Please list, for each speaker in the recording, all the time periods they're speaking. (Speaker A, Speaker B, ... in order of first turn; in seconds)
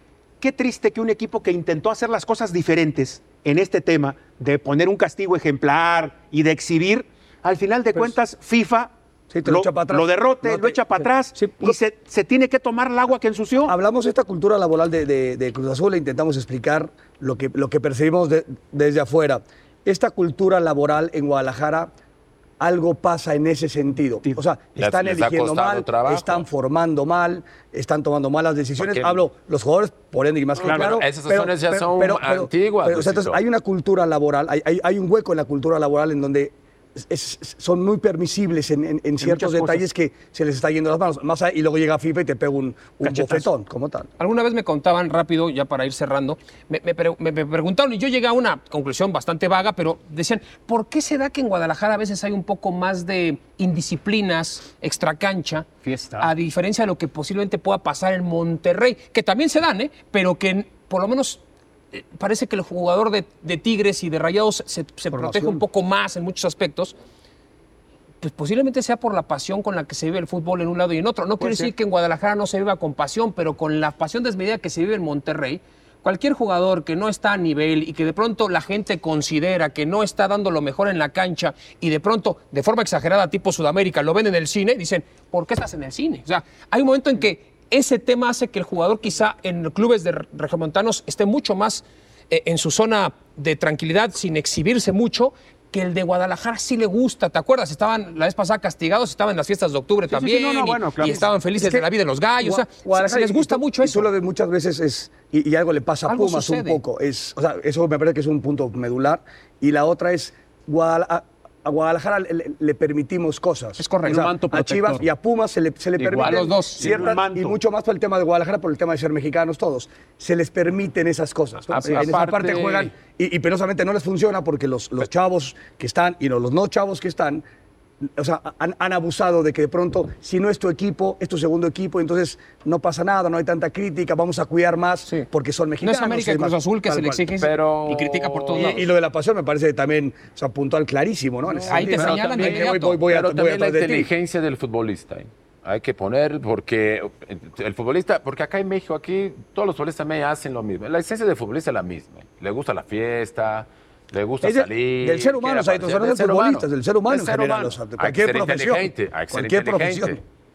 Speaker A: 0.4-8.9, 9.4-13.7, 30.6-30.9, 39.2-39.8, 43.0-43.5, 100.1-101.3, 116.8-117.5
Speaker B: 9.3-11.8, 13.7-21.9, 22.6-44.1, 65.1-65.6, 71.4-71.7, 101.0-101.9, 102.4-127.4, 128.0-137.3, 138.5-144.1, 154.4-160.2
Speaker C: 24.8-26.4, 28.8-29.2, 30.6-33.4, 121.7-122.9, 137.4-138.9, 141.5-160.2
Speaker D: 44.2-55.7, 56.2-61.4, 61.9-66.9, 68.2-104.1, 106.1-106.8, 113.8-114.3, 116.2-117.1, 135.8-138.8, 141.7-143.0
Speaker E: 55.8-56.3, 114.0-115.0, 116.0-116.4